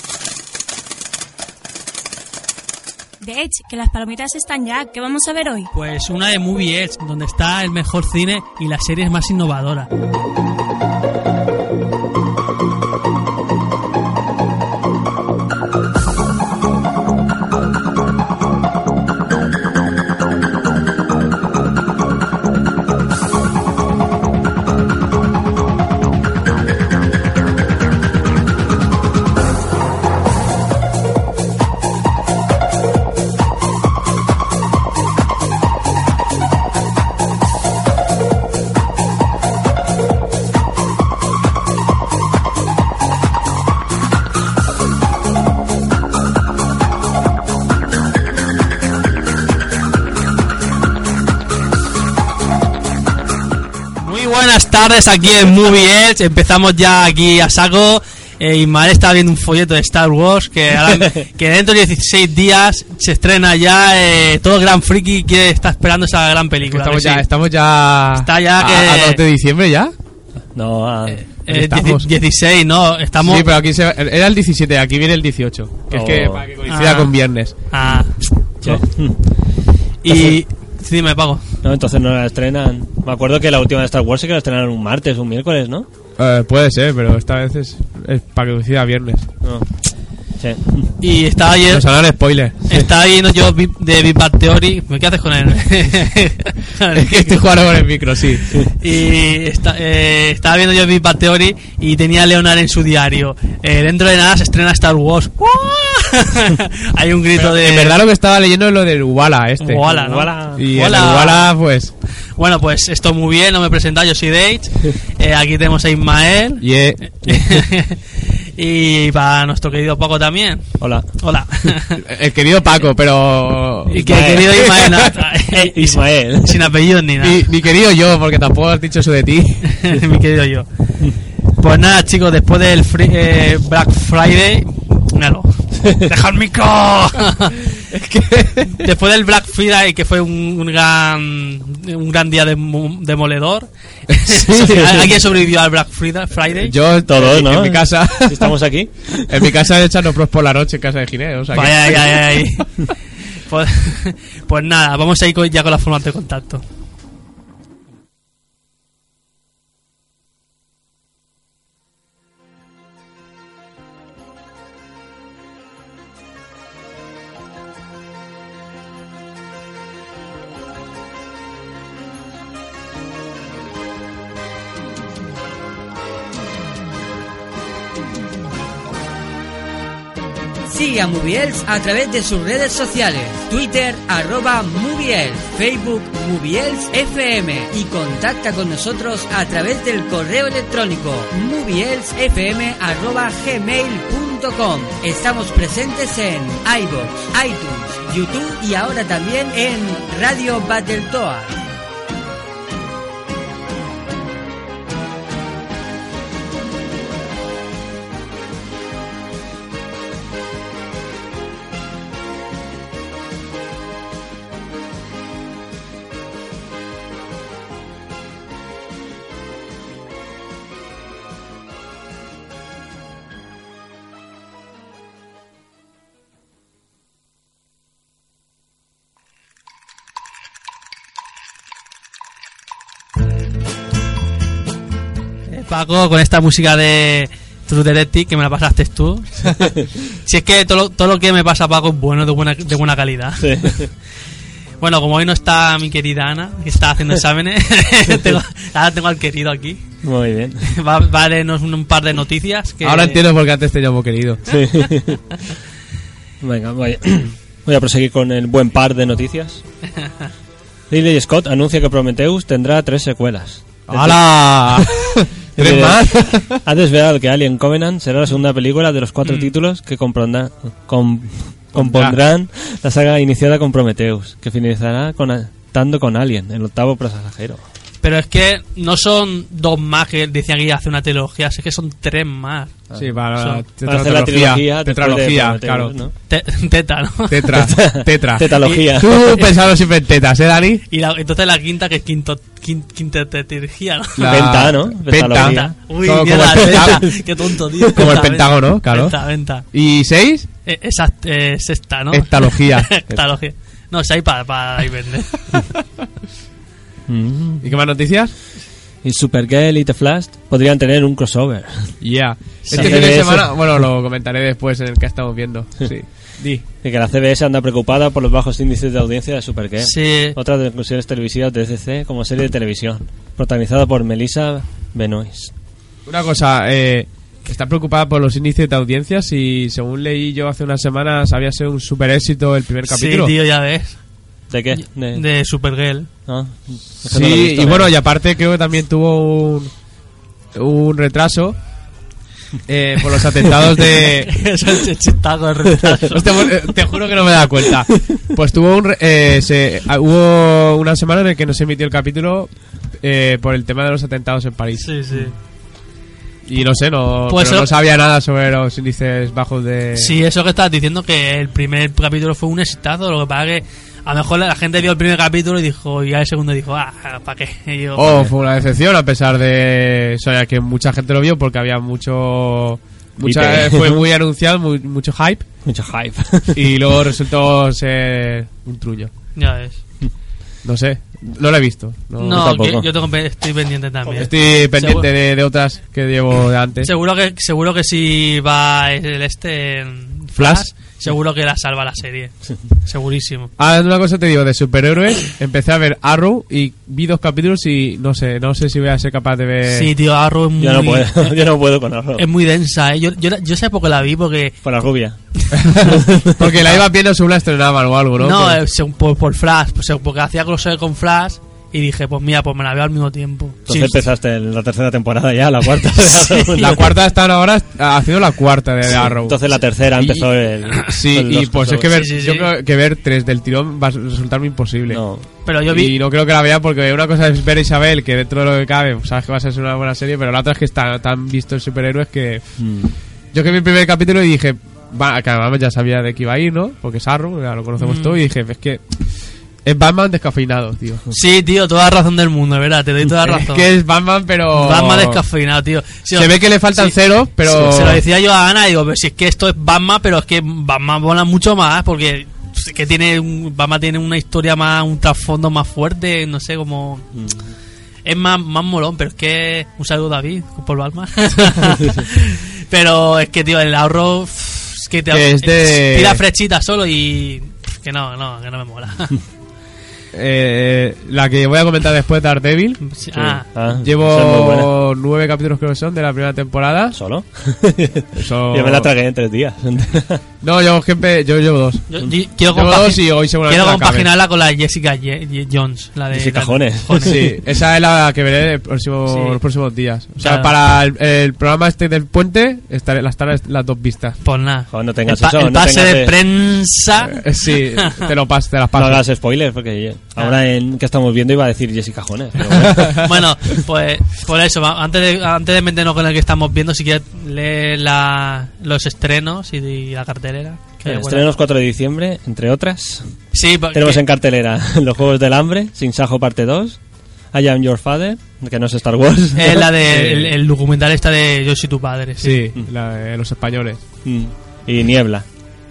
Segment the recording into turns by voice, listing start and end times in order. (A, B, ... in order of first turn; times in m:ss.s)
0:03.2-0:05.7 A
0:05.7-0:09.9 B
0:54.0-1:07.2 B
1:06.6-1:09.9 C
1:08.2-1:09.2 B
1:10.5-1:11.2 D
1:11.1-1:13.5 B
1:11.5-1:12.1 C
1:13.2-1:17.5 C
1:15.9-1:16.4 D
1:16.7-1:17.2 B
1:17.7-1:18.2 B
1:18.6-1:19.4 D
1:20.0-1:21.4 B
1:20.1-1:20.4 D
1:21.6-1:25.9 D
1:26.2-1:29.3 C
1:29.4-1:29.7 D
1:30.4-1:30.9 D
1:31.0-1:31.9 B
1:31.7-1:32.7 C
1:32.7-1:37.5 B
1:36.9-1:38.5 C
1:38.8-1:48.0 B
1:47.3-1:49.8 C
1:49.6-1:51.5 B
1:49.8-1:50.6 D
1:50.5-1:51.9 C
1:52.4-2:02.0 B
1:56.6-1:57.0 C
2:00.8-2:01.1 D
2:02.0-2:04.9 C
2:03.9-2:07.4 B
2:03.9-2:06.7 D
2:07.2-2:09.8 C
2:09.6-2:10.7 B
2:11.6-2:17.8 B
2:17.9-2:18.9 C
2:18.7-2:26.7 B
2:24.1-2:25.1 C
2:26.5-2:28.6 C
2:27.1-2:29.5 D
2:29.2-2:32.6 C
2:31.5-2:36.6 B
3:00.6-3:21.6 E
3:55.5-4:03.8 B
4:03.4-4:03.9 D
4:04.8-4:09.8 B
4:10.0-4:10.7 D
4:10.6-4:13.2 B
4:12.8-4:14.5 C
4:14.5-4:15.2 D
4:16.4-4:19.6 D
4:20.9-4:24.9 D
4:23.9-4:26.6 C
4:25.6-4:37.6 D
4:31.7-4:32.2 C
4:38.0-4:42.7 B
4:43.0-4:45.9 C
4:43.4-4:43.6 B
4:43.8-4:46.1 D
4:46.3-4:47.6 B
4:47.3-4:50.8 C
4:47.5-4:49.1 D
4:50.9-4:54.4 B
4:54.2-4:57.2 C
4:54.3-4:55.8 D
4:55.3-4:59.6 B
4:56.6-4:57.1 D
4:57.9-4:59.2 C
4:59.7-5:00.5 C
5:00.6-5:05.6 B
5:02.1-5:03.0 C
5:07.1-5:07.7 D
5:07.6-5:08.3 C
5:09.0-5:12.0 D
5:12.0-5:16.6 C
5:12.6-5:13.2 B
5:12.7-5:13.5 D
5:16.8-5:25.5 D
5:19.8-5:20.4 B
5:26.0-5:33.3 C
5:32.8-5:34.0 B
5:34.5-5:35.2 D
5:35.1-5:36.1 B
5:36.3-5:37.9 D
5:37.0-5:39.7 C
5:40.5-5:41.6 C
5:42.7-5:44.3 C
5:43.9-5:46.7 B
5:46.1-5:54.9 C
5:54.8-5:55.3 B
5:56.4-6:00.2 C
5:57.3-5:57.7 B
6:00.0-6:08.3 B
6:08.0-6:15.4 C
6:13.2-6:14.0 D
6:15.6-6:16.7 D
6:16.5-6:19.1 C
6:19.4-6:19.8 B
6:20.6-6:22.5 C
6:22.2-6:25.1 B
6:22.3-6:22.9 D
6:24.1-6:26.9 C
6:26.8-6:33.5 B
6:30.4-6:30.7 C
6:33.6-6:39.9 C
6:39.6-6:41.4 B
6:40.6-6:42.2 D
6:42.2-6:44.6 B
6:44.6-6:45.2 D
6:45.5-6:48.6 C
6:45.9-6:46.6 D
6:48.2-6:54.0 B
6:53.7-6:56.9 D
6:55.8-6:56.8 B
6:56.6-6:59.4 C
6:58.8-7:01.9 D
7:00.0-7:00.3 C
7:00.8-7:05.0 C
7:01.9-7:02.5 B
7:04.9-7:05.3 D
7:05.4-7:06.0 B
7:05.7-7:12.6 C
7:12.6-7:12.9 D
7:13.3-7:19.0 C
7:17.8-7:18.2 B
7:19.6-7:21.0 C
7:21.1-7:23.7 B
7:23.2-7:25.2 C
7:24.5-7:37.1 B
7:26.1-7:28.0 C
7:38.0-7:49.2 B
7:45.1-7:46.2 C
7:50.1-7:52.8 C
7:52.8-7:53.5 B
7:53.1-7:54.7 D
7:53.8-7:57.0 C
7:56.9-8:00.2 D
7:58.2-7:58.9 C
8:00.4-8:01.9 C
8:01.9-8:07.3 B
8:02.5-8:04.1 C
8:06.1-8:07.3 D
8:07.0-8:14.2 C
8:09.1-8:09.4 B
8:10.2-8:10.5 B
8:14.2-8:17.2 B
8:14.7-8:16.2 D
8:17.0-8:19.0 C
8:17.8-8:18.1 B
8:18.7-8:23.1 D
8:22.8-8:31.3 B
8:30.8-8:33.1 D
8:33.3-8:34.0 B
8:33.7-8:36.8 D
8:37.3-8:40.3 D
8:39.3-8:42.5 B
8:42.2-8:43.8 C
8:44.0-8:45.2 D